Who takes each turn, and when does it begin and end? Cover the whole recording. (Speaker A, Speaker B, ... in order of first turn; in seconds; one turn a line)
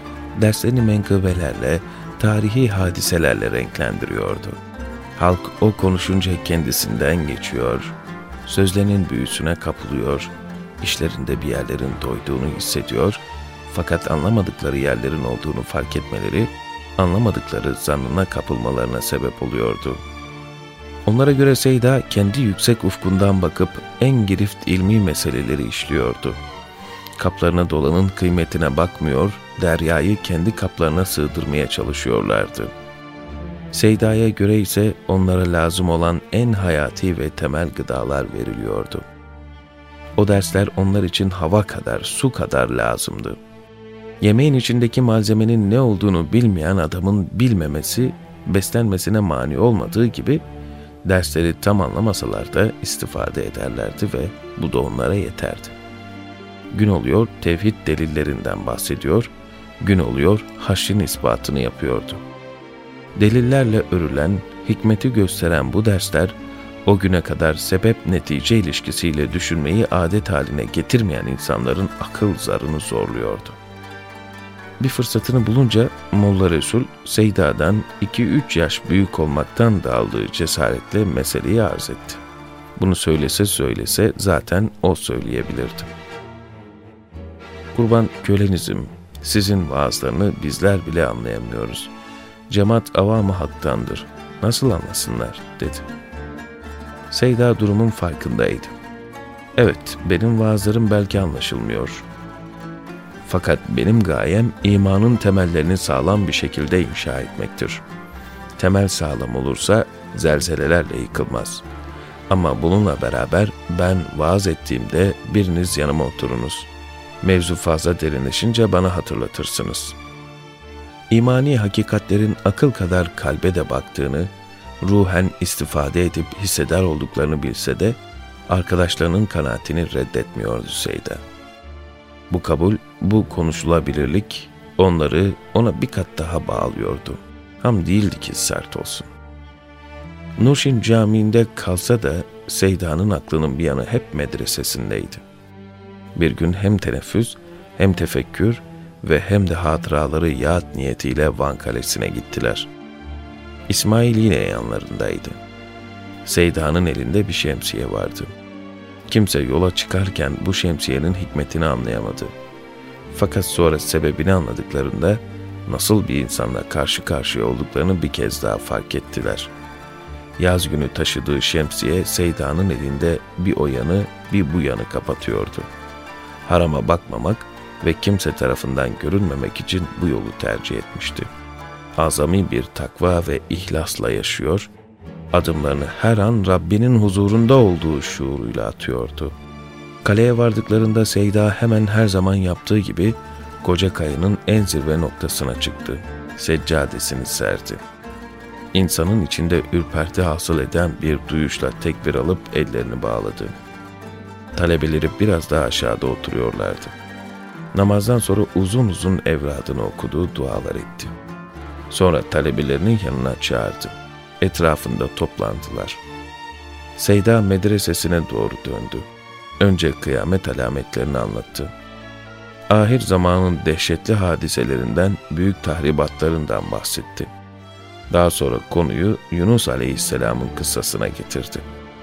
Speaker A: 0.3-4.6
Speaker A: 5.2-20.0
Speaker A: 21.1-26.4
Speaker A: 27.2-32.7
Speaker A: 33.7-39.0
Speaker A: 40.2-43.4
Speaker A: 44.2-50.4
Speaker A: 51.1-55.8
Speaker A: 56.7-62.2
Speaker A: 63.2-73.6
Speaker A: 74.8-82.2
Speaker A: 82.8-85.9
Speaker A: 87.7-91.9
Speaker A: 92.5-95.9
Speaker A: 97.1-98.7
Speaker A: 99.6-102.1
Speaker A: 103.2-107.8
Speaker A: 108.6-111.7
Speaker A: 112.3-116.7
Speaker A: 117.2-120.0
Speaker A: 121.1-124.3
Speaker A: 124.8-131.2
Speaker A: 132.3-139.1
Speaker A: 140.4-145.2
Speaker A: 146.2-152.7
Speaker A: 153.7-155.4
Speaker A: 156.2-158.3
Speaker A: 159.1-162.3
Speaker A: 163.1-169.5
Speaker A: 170.4-175.7
Speaker A: 176.4-181.3
Speaker A: 182.0-184.7
Speaker A: 185.3-189.3
Speaker A: 190.0-197.8
Speaker A: 198.7-203.5
Speaker A: 204.6-206.9
Speaker A: 207.7-211.1
Speaker A: 211.9-216.0
Speaker A: 217.0-219.1
Speaker A: 219.6-221.7
Speaker A: 222.7-227.3
Speaker A: 228.1-231.6